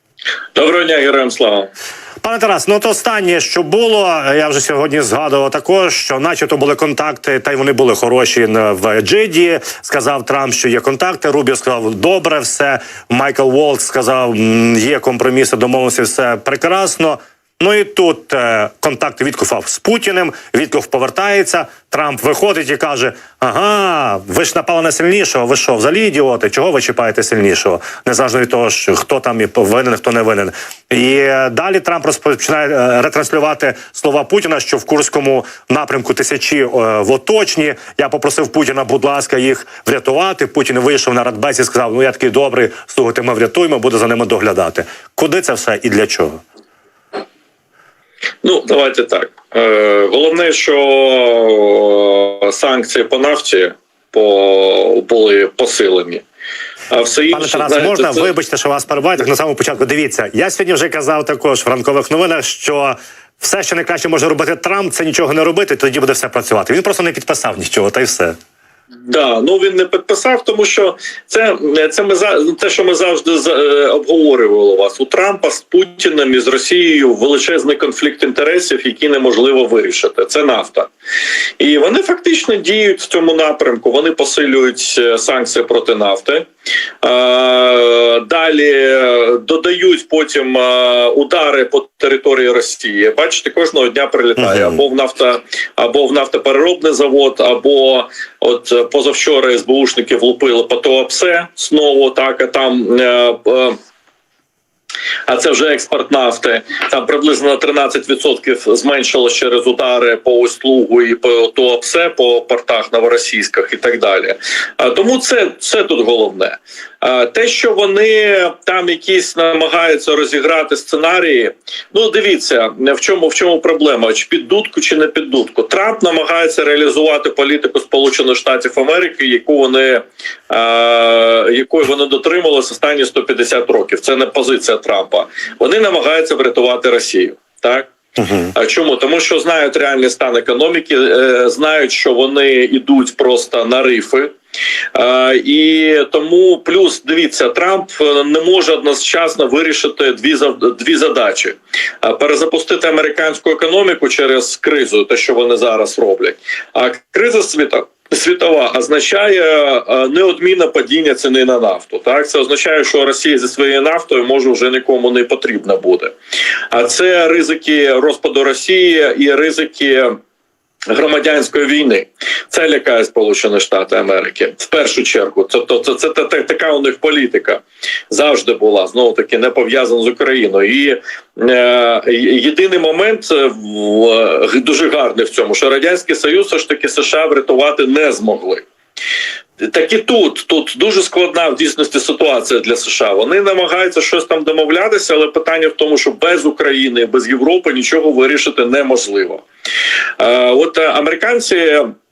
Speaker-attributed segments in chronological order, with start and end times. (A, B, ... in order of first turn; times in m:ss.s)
0:00.6-0:01.7 A
0:02.2-0:46.4 B
0:48.4-0:56.2 A
0:56.9-0:58.3 A
0:57.3-1:08.4 B
1:09.1-1:20.9 A
1:21.6-1:26.5 A
1:27.0-1:43.8 A
1:34.4-1:34.8 B
1:45.3-2:17.9 A
2:18.2-2:18.5 B
2:18.5-2:24.3 A
2:25.0-2:46.1 A
2:46.7-2:50.2 A
2:50.9-3:08.6 A
3:09.6-3:19.4 A
3:20.2-3:21.9 A